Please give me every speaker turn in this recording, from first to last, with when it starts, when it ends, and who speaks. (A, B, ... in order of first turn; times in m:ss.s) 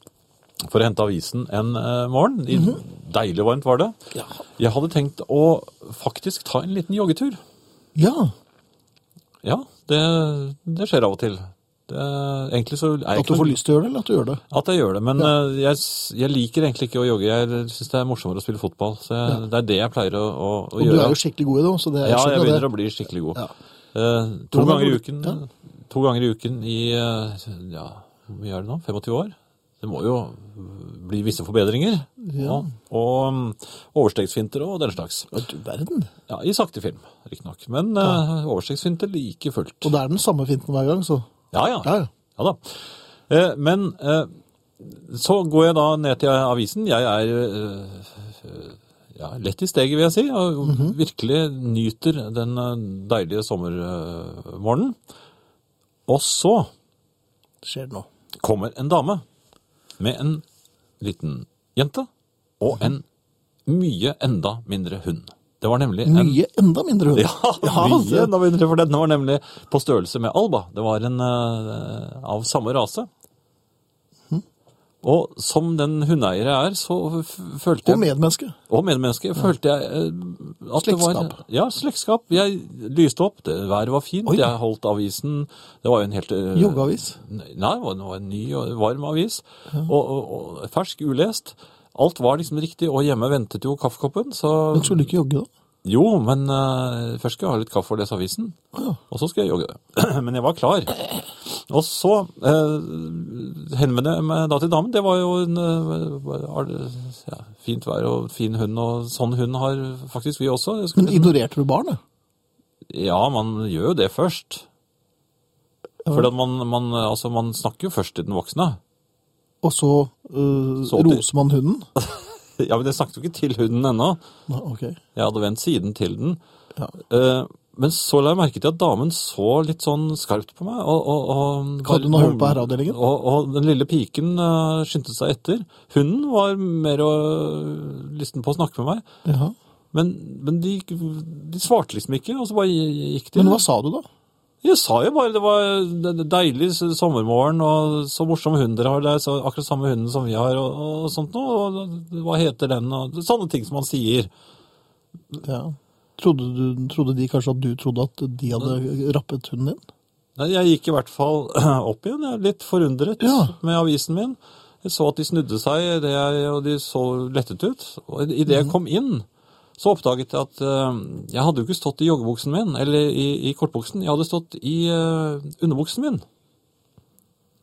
0:00.6-0:04.0 A
0:02.5-0:02.8 B
0:04.6-0:07.4 A
0:08.0-0:08.3 B
0:09.4-0:13.6 A
0:13.1-0:14.4 B
0:14.5-0:21.2 A
0:20.8-0:22.7 B
0:22.0-0:23.4 A
0:23.9-0:35.3 A
0:24.5-0:25.4 B
0:32.2-0:32.7 B
0:35.3-0:36.1 B
0:36.3-0:39.9 A
0:39.8-0:41.2 B
0:41.5-0:55.0 A
0:41.8-0:42.1 B
0:50.6-0:51.0 B
0:56.1-0:56.7 A
0:57.6-0:58.0 B
0:58.4-0:59.2 A
1:00.0-1:00.4 A
1:01.0-1:02.1 A
1:02.6-1:03.0 A
1:03.7-1:06.4 A
1:06.0-1:08.3 B
1:07.1-1:13.1 A
1:15.0-1:18.1 A
1:17.8-1:18.6 B
1:18.7-1:35.1 A
1:20.8-1:21.4 B
1:26.5-1:27.2 B
1:34.7-1:35.5 B
1:35.8-1:38.6 A
1:38.7-1:39.0 B
1:39.1-1:51.3 A
1:51.0-1:52.0 B
1:52.9-1:54.7 A
1:56.1-1:58.8 A
1:59.6-2:01.9 B
2:00.9-2:01.2 A
2:02.0-2:04.2 A
2:04.5-2:05.0 B
2:05.1-2:06.4 A
2:07.1-2:19.0 A
2:11.8-2:13.0 B
2:19.2-2:19.5 B
2:19.9-2:23.6 A
2:23.4-2:24.1 B
2:24.6-2:34.3 A
2:35.4-2:39.8 B
2:40.4-2:49.2 A
2:43.2-2:43.6 B
2:49.8-2:56.2 A